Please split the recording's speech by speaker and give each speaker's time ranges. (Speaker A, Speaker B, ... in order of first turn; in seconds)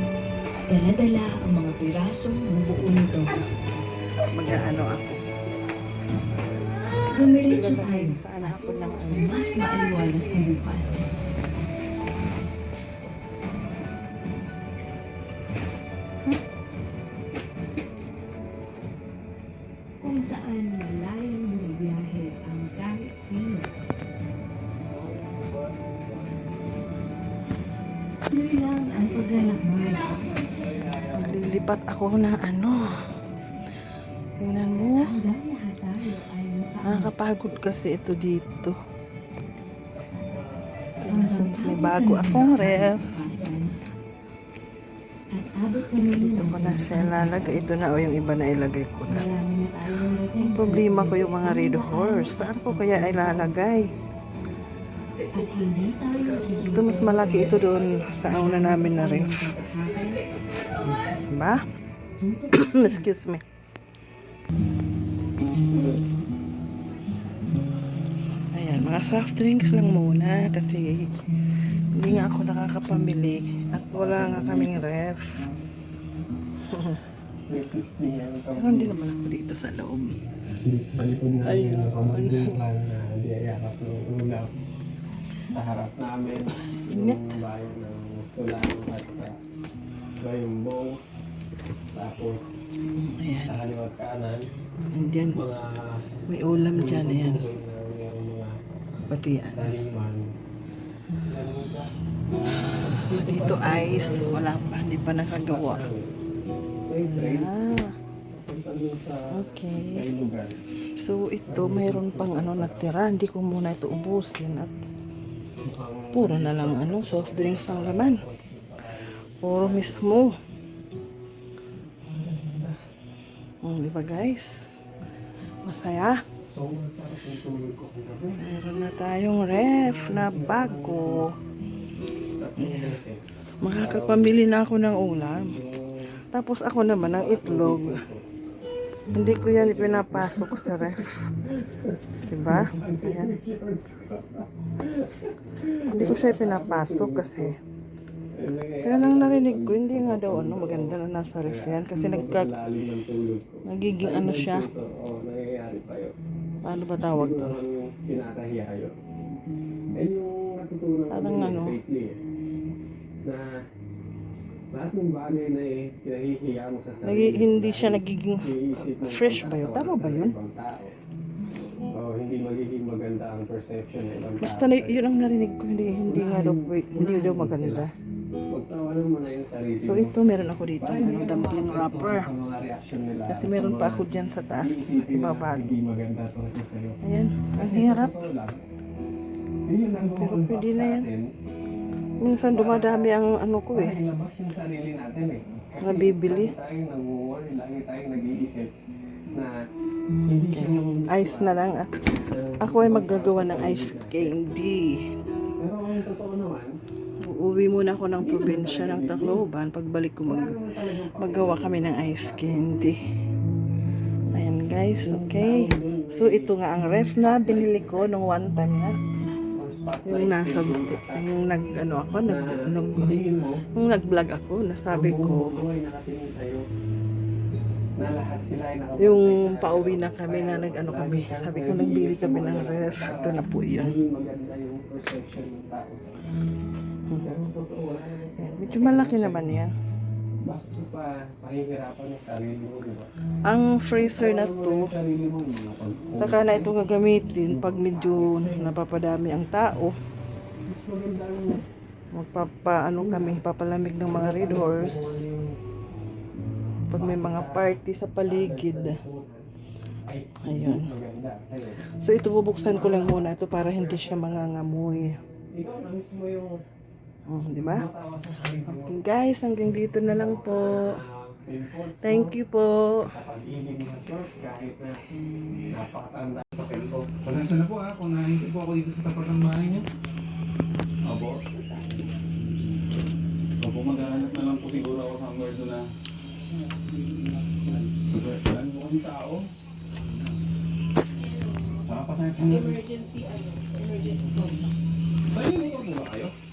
Speaker A: 0.7-3.3, 7.1-11.1, 20.0-23.7, 28.3-30.1, 35.0-37.1, 41.1-43.7, 45.3-47.6, 49.1-53.5, 55.3-57.6, 58.2-60.2, 62.2-63.0
Speaker B: 4.3-5.2, 7.5-9.4, 31.1-32.9, 34.4-35.1, 36.8-38.8, 41.1-43.0, 46.1-49.2, 50.4-53.9, 56.7-59.4, 61.0-61.6, 62.5-63.4, 68.5-71.1, 71.9-75.2, 76.7-77.0, 78.5-80.0, 81.4-82.5, 86.8-87.3, 93.0-93.5, 94.9-95.3, 96.3-97.4, 99.1-99.6, 103.1-105.8, 107.1-107.9, 109.3-110.0, 111.0-114.7, 116.1-118.2, 119.4-120.3, 123.6-124.7, 125.6-126.2, 128.4-131.3, 132.6-133.0, 133.6-135.5, 136.3-138.0, 139.1-141.1, 142.3-143.3, 145.9-147.5, 148.8-152.5, 153.7-154.7, 156.6-157.6, 161.1-161.8, 167.0-170.3, 174.4-177.9, 179.8-182.3, 183.3-185.8, 187.0-188.1, 190.1-191.1, 192.2-193.9, 195.8-196.5, 200.5-201.9, 202.6-205.0, 207.2-210.6, 211.2-213.0, 214.3-218.9, 220.1-223.2, 223.8-225.6, 229.0-234.0, 238.4-239.7, 243.4-244.9, 246.2-249.9, 252.1-255.2, 256.9-259.0, 260.4-260.9, 261.9-265.1, 267.3-267.8, 268.6-270.9, 272.0-273.1
Speaker C: 30.0-31.4, 40.0-41.0, 73.9-74.8, 77.5-78.9, 80.7-84.5, 85.5-89.4, 90.2-91.0, 91.9-92.5, 93.5-94.4, 95.3-95.7, 96.7-98.5, 99.5-100.2, 101.3-101.8, 102.8-104.5, 105.3-106.1, 106.9-107.5, 108.3-110.6, 111.5-112.9, 115.6-120.3, 122.0-122.8, 126.4-128.4, 129.7-131.2, 132.4-134.3, 135.5-136.1, 137.1-138.2, 139.6-147.5, 148.3-156.1, 157.1-159.0, 159.9-162.2, 163.2-163.5, 164.7-170.9, 171.9-175.0, 176.1-177.9, 178.5-180.2, 180.8-184.1, 184.6-187.0, 187.6-188.6, 189.7-191.2, 192.5-193.1, 193.7-198.7, 200.2-201.5, 202.3-204.3, 205.6-206.7, 208.2-209.4, 210.2-212.7, 215.0-216.5, 217.2-218.2, 219.5-221.2, 222.2-223.7, 224.9-226.6, 228.0-236.2, 237.2-239.6, 240.4-243.1, 244.0-246.8, 247.4-248.8, 250.7-251.6, 253.0-253.4, 254.1-255.5, 256.9-259.4, 260.1-261.9, 262.6-264.6, 265.5-266.5, 267.6-269.0, 270.0-272.4, 273.1-275.0, 275.7-276.5, 293.9-294.6
Speaker D: 276.6-279.8, 281.1-282.9, 283.6-285.8, 286.7-289.4, 290.0-290.3, 291.8-293.1, 295.3-296.3